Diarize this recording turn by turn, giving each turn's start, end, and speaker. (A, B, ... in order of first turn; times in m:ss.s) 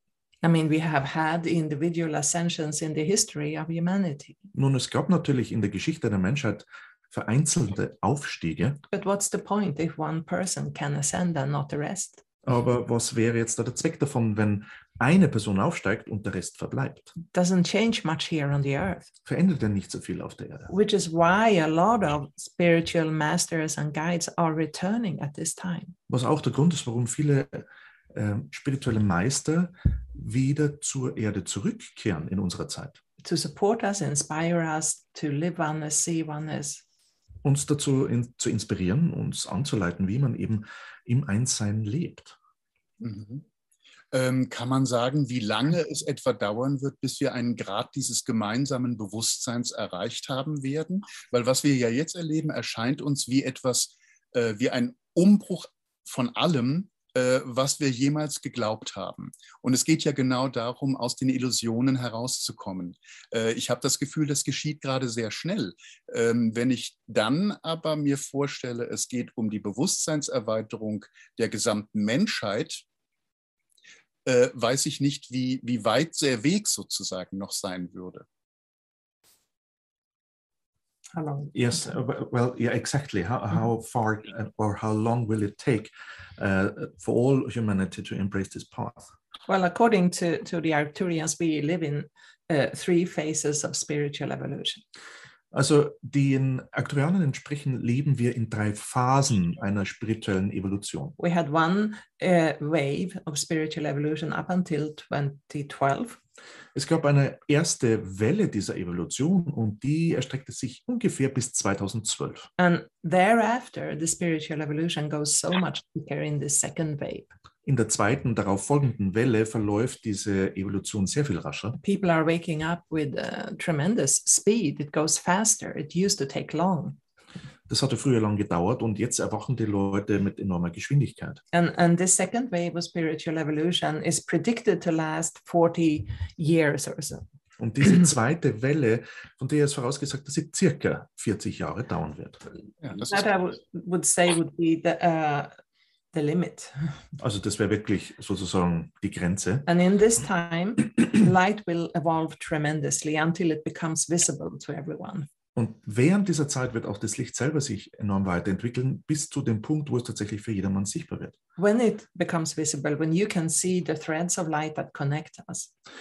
0:00.4-0:04.5 A
0:04.5-0:08.8 B
0:08.9-0:12.2 A
0:12.4-0:17.1 B
0:17.2-0:19.1 A
0:19.2-0:20.7 B
0:20.7-0:26.0 A
0:26.1-0:33.0 B
0:33.2-0:36.8 A
0:37.4-0:42.4 B
0:43.0-0:43.4 C
0:44.1-1:12.8 C
1:14.2-1:18.3 C
1:21.1-1:21.8 A
1:21.5-1:29.1 B
1:29.5-1:34.8 A
1:35.5-1:41.2 B
1:41.2-1:46.2 A
1:46.7-1:52.5 B
1:52.6-1:57.3 A
1:57.6-2:01.8 B
2:01.8-2:07.0 A
2:07.7-2:11.4 B
2:11.5-2:17.2 A
2:17.6-2:22.4 B
2:22.8-2:23.2 C
2:23.0-2:25.5 A
2:26.1-2:26.8 A
2:27.2-2:29.7 B
2:29.7-2:35.3 A
2:35.6-2:41.4 B
2:41.6-2:45.7 A